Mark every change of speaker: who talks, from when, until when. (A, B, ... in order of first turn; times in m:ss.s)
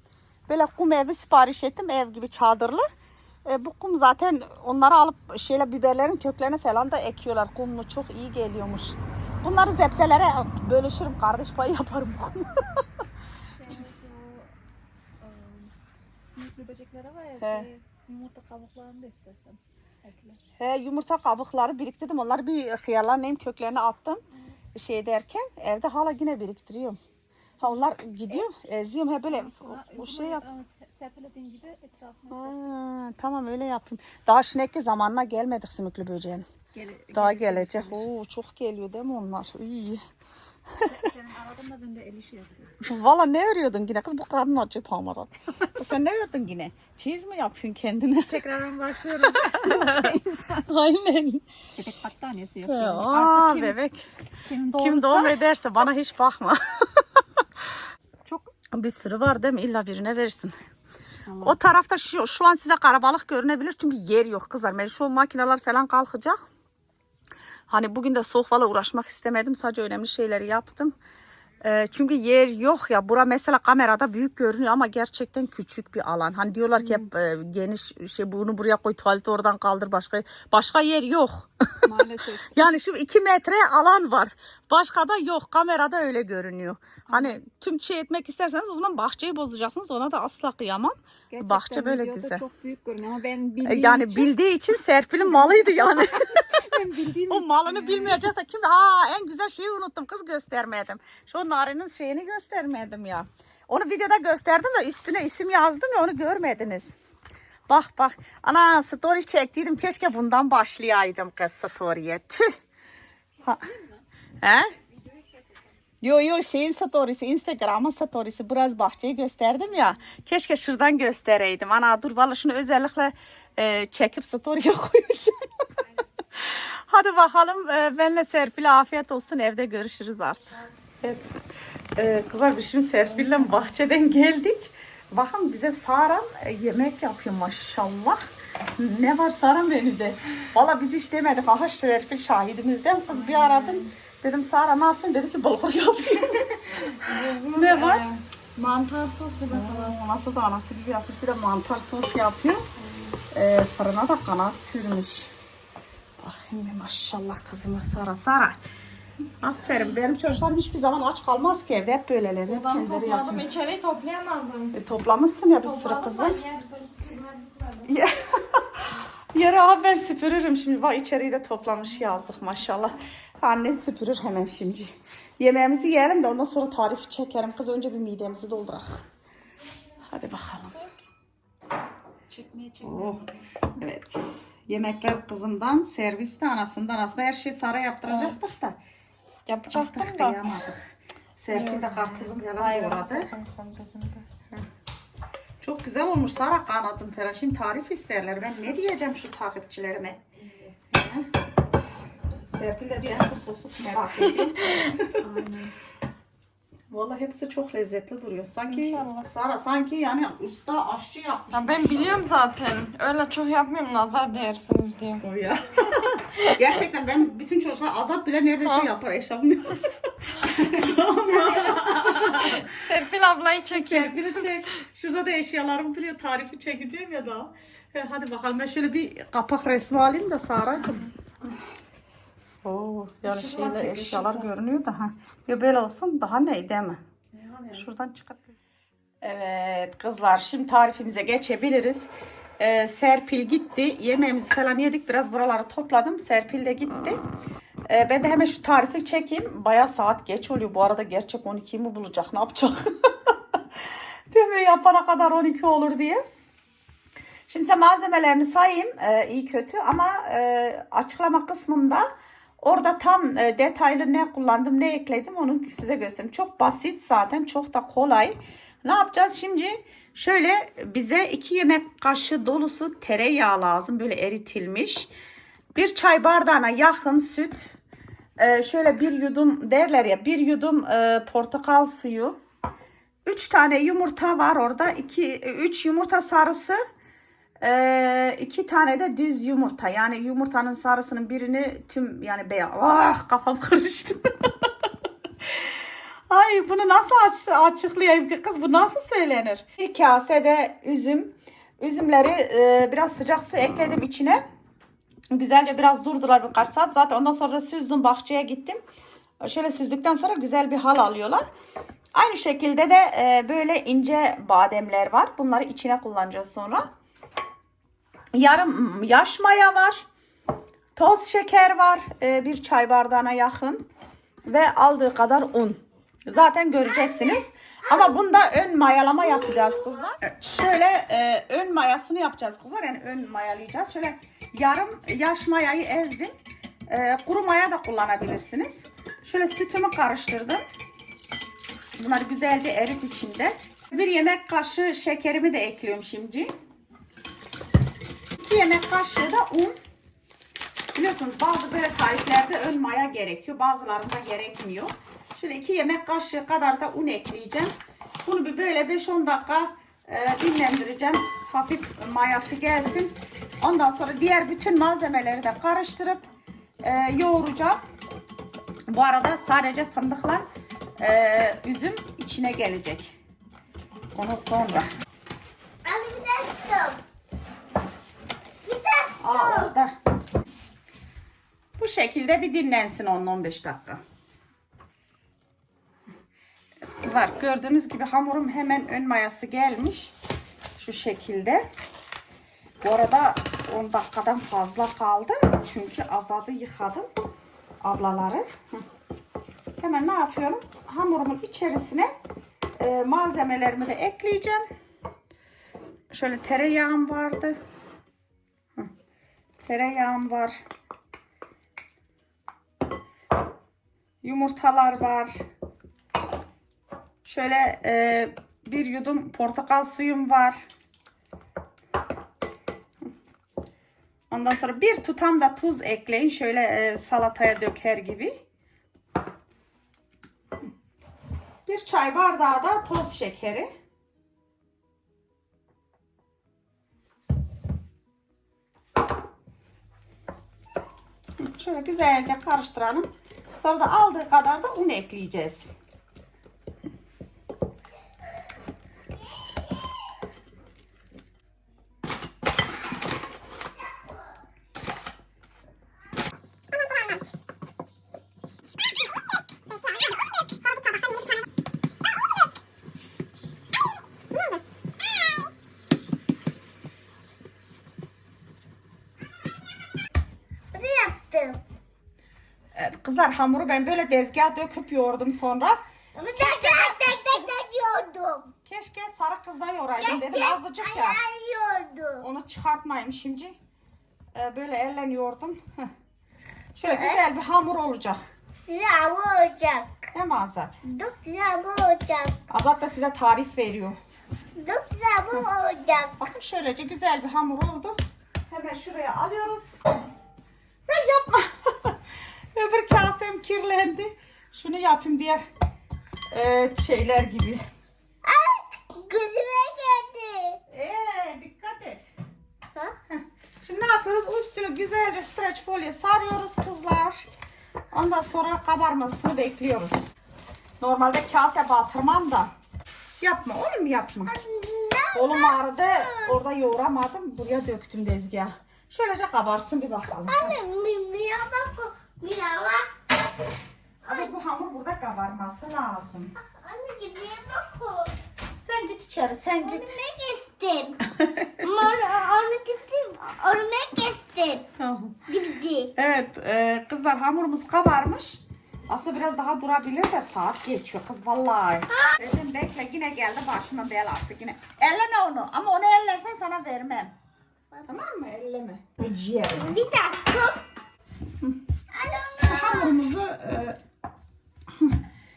0:00.5-0:02.8 A
0:03.4-0:12.8 A
0:13.5-0:14.5 B
0:15.2-0:15.7 B
0:16.2-0:20.4 B
0:17.4-0:17.7 A
0:20.6-0:24.2 A
0:24.7-0:27.0 A
0:27.6-0:30.4 A
0:28.3-0:28.6 B
0:29.3-0:32.6 B
0:32.3-0:36.4 A
0:36.7-0:38.0 B
0:37.1-0:40.0 A
0:40.8-0:42.9 B
0:42.8-0:48.4 A
0:48.3-0:50.7 B
0:49.3-0:50.1 A
0:50.6-0:51.4 A
0:51.8-0:53.8 B
0:52.6-0:54.1 A
0:54.4-0:55.4 B
0:54.8-0:57.0 A
0:58.7-1:00.6 A
1:01.2-1:01.6 B
1:01.4-1:06.4 A
1:07.7-1:10.9 A
1:11.6-1:21.9 A
1:21.8-1:22.7 B
1:22.5-1:32.4 A
1:31.3-1:34.3 B
1:33.6-1:36.7 A
1:35.2-1:38.2 B
1:37.3-1:47.0 A
1:47.7-1:52.5 A
1:53.4-1:54.0 B
1:54.4-1:54.7 A
1:54.8-1:55.7 B
1:56.0-2:05.4 A
2:06.3-2:11.3 A
2:12.0-2:18.2 A
2:13.1-2:13.7 C
2:18.8-2:28.0 A
2:23.1-2:23.9 C
2:26.9-2:30.0 C
2:29.5-2:32.6 A
2:32.8-2:33.2 C
2:33.3-2:35.3 A
2:36.2-2:38.6 A
2:39.4-2:43.5 A
2:42.5-2:44.7 C
2:44.7-2:46.4 A
2:45.5-2:47.9 C
2:47.8-2:59.0 A
3:00.1-3:00.8 A
3:02.3-3:03.4 C
3:02.8-3:03.2 A
3:03.8-3:08.8 A
3:08.1-3:08.4 C
3:09.4-3:10.5 C
3:09.7-3:13.3 A
3:11.5-3:14.2 C
3:15.6-3:20.2 A
3:20.4-3:20.8 B
3:20.9-3:21.3 A
3:22.5-3:25.2 A
3:24.4-3:24.8 C
3:25.2-3:25.7 B
3:26.9-3:32.2 A
3:28.7-3:29.3 C
3:31.5-3:35.2 C
3:35.2-3:42.8 A
3:40.9-3:42.1 B
3:42.2-3:44.6 C
3:43.7-3:51.1 A
3:52.6-3:57.0 A
3:53.2-3:54.5 C
3:57.4-3:57.8 C
3:57.7-3:58.5 A
3:59.2-4:07.2 A
4:07.9-4:16.2 A
4:17.5-4:22.1 A
4:22.6-4:35.1 A
4:35.7-4:37.8 A
4:38.4-4:42.4 A
4:43.2-4:46.8 A
4:47.6-4:54.2 A
4:55.4-4:55.8 A
4:56.3-5:04.4 A
5:05.3-5:08.8 A
5:09.4-5:11.5 A
5:12.1-5:16.9 A
5:18.3-5:20.0 A
5:21.0-5:23.8 A
5:24.4-5:36.3 A
5:36.9-5:40.6 A
5:42.0-5:46.5 A
5:48.4-5:49.7 A
5:50.9-5:57.7 A
5:58.2-6:06.2 A
6:06.8-6:07.8 A
6:08.9-6:10.4 A
6:11.0-6:13.1 A
6:14.1-6:14.9 A
6:15.8-6:17.0 D
6:18.6-6:19.7 D
6:19.2-6:19.9 A
6:21.8-6:24.0 A
6:27.0-6:30.1 A
6:30.8-6:31.6 A
6:32.8-6:37.1 A
6:37.8-6:38.8 A
6:39.8-6:42.1 A
6:42.8-6:44.6 A
6:46.1-6:47.6 A
6:49.6-6:50.6 A
6:54.2-6:55.4 A
6:57.2-7:00.6 A
7:04.3-7:08.3 A
7:11.6-7:13.7 A
7:21.4-7:25.7 A
7:33.8-7:34.2 D
7:50.7-7:51.6 D
7:52.7-7:55.8 A
7:56.1-7:58.5 D
7:56.4-7:57.4 A
7:58.6-8:01.2 A
8:00.0-8:02.2 D
8:02.2-8:03.6 A
8:04.3-8:05.9 A
8:06.7-8:08.2 A
8:06.9-8:07.2 D
8:08.6-8:10.0 D
8:10.1-8:10.8 A
8:10.8-8:12.4 D
8:12.5-8:14.0 A
8:14.5-8:16.2 D
8:16.2-8:19.8 A
8:20.9-8:22.0 A
8:22.5-8:25.4 A
8:26.3-8:27.6 A
8:28.2-8:30.6 D
8:30.7-8:32.1 A
8:33.1-8:37.3 A
8:37.9-8:40.1 A
8:40.8-8:42.5 A
8:43.2-8:44.3 A
8:44.2-8:46.4 D
8:45.1-8:50.6 A
8:50.3-8:52.9 D
8:54.0-8:56.3 A
8:54.1-8:54.3 D
8:56.4-8:58.2 D
8:58.6-9:00.0 A
8:59.5-9:01.0 D
9:01.2-9:01.7 A
9:01.6-9:04.6 D
9:04.8-9:05.2 A
9:05.3-9:05.9 D
9:05.9-9:17.1 A
9:17.8-9:19.8 A
9:19.5-9:20.6 D
9:21.9-9:23.0 D
9:22.4-9:23.8 A